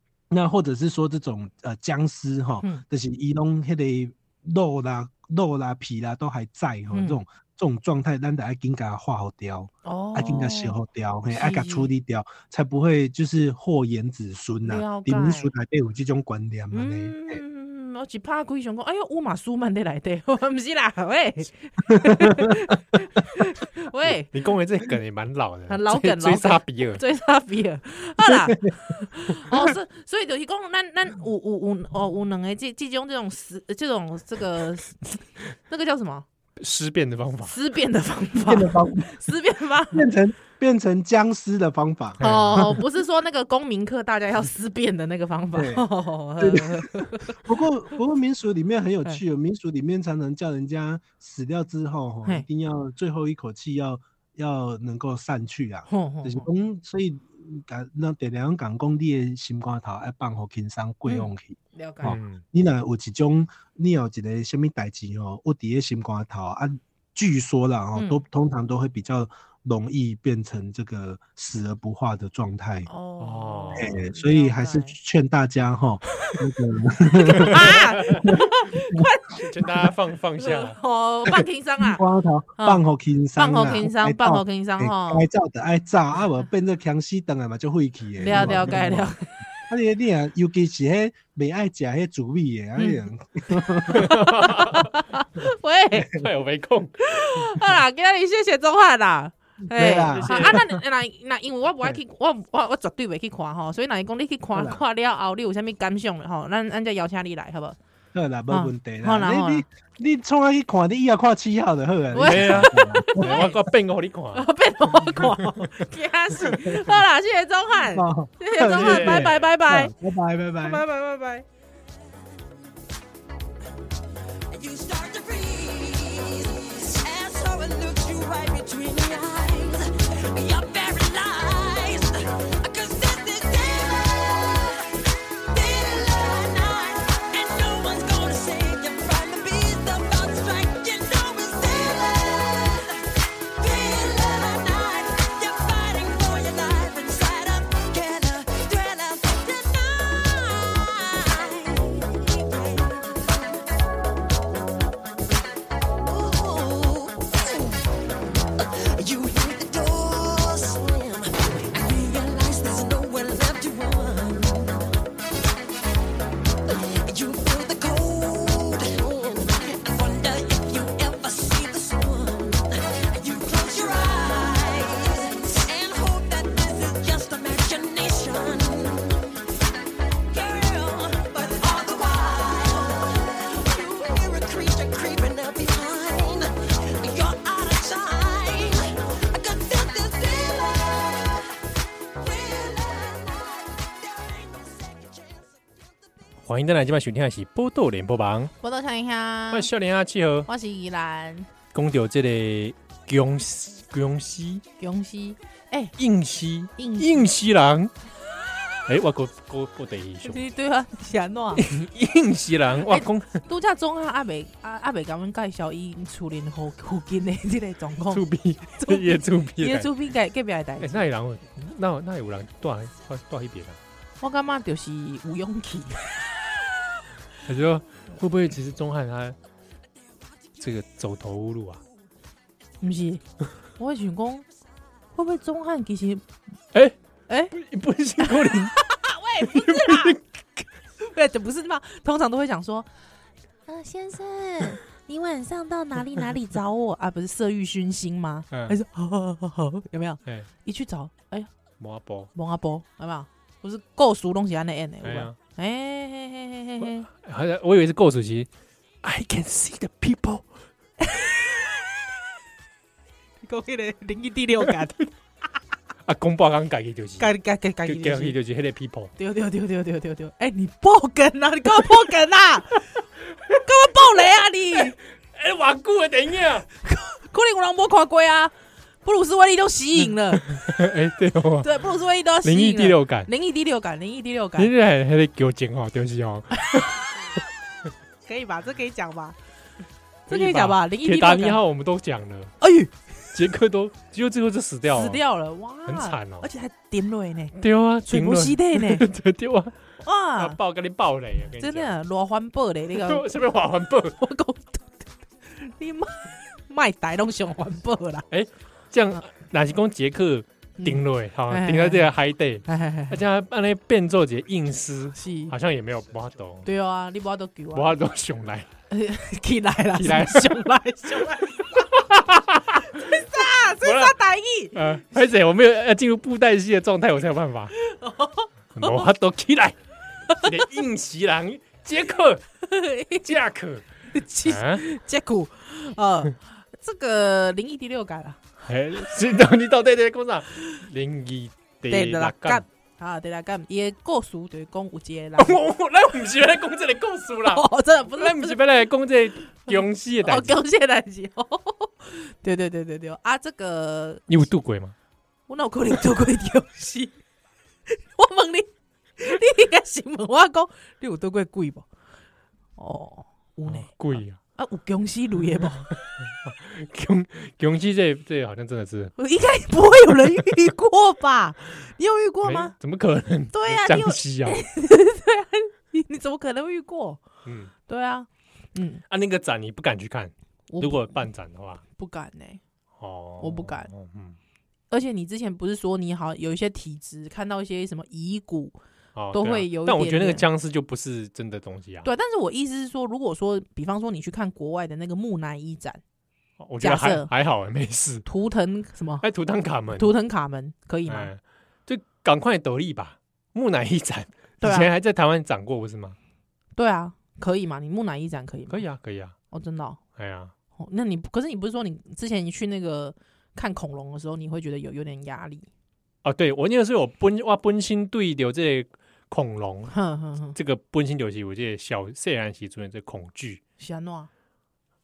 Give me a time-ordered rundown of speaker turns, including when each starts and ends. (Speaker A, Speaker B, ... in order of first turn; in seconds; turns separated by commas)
Speaker A: 0.3-17.4, Speaker B: 6.9-7.2, Speaker B: 9.8-10.8, Speaker B: 11.3-11.9, Speaker B: 14.6-15.5, Speaker B: 16.7-24.3, Speaker A: 21.9-22.5, Speaker C: 24.3-27.0, Speaker B: 25.7-36.3, Speaker A: 28.2-28.9, Speaker C: 36.6-37.5, Speaker B: 37.5-40.0, Speaker A: 38.4-39.3, Speaker A: 39.9-42.8, Speaker C: 42.2-42.6, Speaker B: 42.2-47.4, Speaker A: 45.5-45.9, Speaker A: 46.4-72.9, Speaker B: 55.9-56.5, Speaker B: 61.1-62.2, Speaker C: 62.0-62.4, Speaker B: 68.0-68.2, Speaker B: 72.9-75.0, Speaker C: 73.2-73.9, Speaker A: 73.8-79.1, Speaker B: 77.1-79.4, Speaker C: 77.5-78.2, Speaker C: 79.4-80.8, Speaker B: 80.4-82.0, Speaker A: 81.3-89.1, Speaker B: 83.4-85.3, Speaker B: 88.2-89.3, Speaker A: 89.7-94.2, Speaker B: 92.8-96.1, Speaker C: 93.9-94.9, Speaker C: 96.1-97.0, Speaker B: 97.0-107.8, Speaker A: 99.7-100.6, Speaker C: 100.1-100.6, Speaker A: 104.5-104.8, Speaker A: 108.1-113.4, Speaker B: 108.5-109.7, Speaker B: 112.1-113.6, Speaker C: 112.2-114.5, Speaker B: 114.3-119.9, Speaker A: 116.4-116.8, Speaker A: 117.9-120.8, Speaker C: 118.7-119.5, Speaker B: 120.6-121.5, Speaker D: 124.5-134.9, Speaker D: 135.5-153.4, Speaker D: 156.0-157.9, Speaker D: 158.6-164.8, Speaker D: 166.7-179.2, Speaker D: 180.3-191.5, Speaker D: 192.2-195.4, Speaker C: 196.4-198.5, Speaker B: 198.6-199.7, Speaker C: 199.5-200.5, Speaker B: 200.5-201.5, Speaker C: 201.7-204.6, Speaker B: 204.8-205.9, Speaker C: 206.0-207.9, Speaker B: 206.8-207.3, Speaker C: 208.9-210.4, Speaker B: 210.2-211.7, Speaker C: 211.6-213.4, Speaker B: 212.9-218.2, Speaker C: 218.1-219.9, Speaker B: 218.8-221.0, Speaker C: 220.8-223.8, Speaker B: 224.2-226.2, Speaker C: 227.4-229.4, Speaker C: 230.6-231.8, Speaker B: 232.8-233.2, Speaker B: 233.8-234.5, Speaker B: 235.2-236.2, Speaker B: 237.3-237.5, Speaker C: 237.5-238.8, Speaker B: 238.2-240.2, Speaker C: 239.4-240.2, Speaker B: 241.0-242.9, Speaker B: 243.7-251.5, Speaker C: 251.8-252.3, Speaker B: 252.3-257.1, Speaker C: 255.0-255.3, Speaker C: 256.8-258.5, Speaker C: 259.0-260.5, Speaker B: 261.0-261.7, Speaker B: 263.4-265.0, Speaker C: 266.1-267.3, Speaker B: 267.2-268.4, Speaker C: 267.9-269.1, Speaker B: 269.2-272.8, Speaker B: 273.5-275.0, Speaker C: 275.3-276.7, Speaker B: 276.8-278.5, Speaker B: 279.1-280.4, Speaker C: 280.3-281.8, Speaker B: 281.6-284.7, Speaker C: 282.4-283.3, Speaker C: 284.6-287.0, Speaker B: 288.3-289.4, Speaker B: 290.3-291.6, Speaker C: 290.3-292.6, Speaker B: 292.6-292.9, Speaker C: 293.3-295.2, Speaker B: 294.9-299.1, Speaker C: 295.9-296.5, Speaker C: 297.6-299.8, Speaker B: 300.0-300.6, Speaker C: 300.4-301.9, Speaker B: 301.6-303.3, Speaker C: 302.9-304.2, Speaker B: 304.2-305.0, Speaker B: 305.6-308.2, Speaker C: 308.3-316.7, Speaker B: 310.8-312.1, Speaker B: 312.7-313.2, Speaker B: 315.2-315.5, Speaker B: 316.6-317.9, Speaker C: 317.7-318.7, Speaker B: 318.9-321.9, Speaker C: 320.0-320.6, Speaker C: 321.8-323.2, Speaker B: 322.9-324.8, Speaker C: 323.8-324.2, Speaker C: 324.8-327.7, Speaker B: 327.8-329.1, Speaker C: 328.8-329.8, Speaker B: 330.3-330.6, Speaker C: 330.4-332.4, Speaker B: 332.6-333.4, Speaker C: 333.2-333.9, Speaker B: 334.1-338.4, Speaker C: 334.5-334.8, Speaker C: 338.6-342.6, Speaker B: 341.9-345.6, Speaker C: 345.4-350.6, Speaker B: 347.5-348.6, Speaker B: 349.7-354.4, Speaker C: 354.3-354.9, Speaker B: 355.5-357.2, Speaker B: 357.9-361.9, Speaker B: 362.8-365.9, Speaker C: 363.7-364.4, Speaker C: 366.4-369.1, Speaker B: 369.2-372.7, Speaker C: 372.4-374.7, Speaker B: 373.5-377.2, Speaker C: 377.4-377.7, Speaker B: 377.9-379.0, Speaker C: 379.1-381.8, Speaker B: 380.7-381.2, Speaker B: 381.9-382.6, Speaker C: 383.0-384.4, Speaker B: 383.4-383.9, Speaker B: 384.9-388.8, Speaker C: 389.1-392.1, Speaker B: 389.3-390.5, Speaker B: 392.0-396.0, Speaker C: 396.6-398.3, Speaker B: 396.8-397.3, Speaker B: 398.2-399.3, Speaker C: 399.2-400.1, Speaker B: 399.9-401.3, Speaker C: 401.1-406.2, Speaker B: 404.6-404.9, Speaker B: 406.8-408.8, Speaker C: 408.7-409.4, Speaker B: 409.5-410.0, Speaker C: 410.2-410.5, Speaker B: 410.8-415.7, Speaker C: 416.2-420.0, Speaker B: 419.9-420.6, Speaker C: 420.6-423.6, Speaker B: 423.8-424.3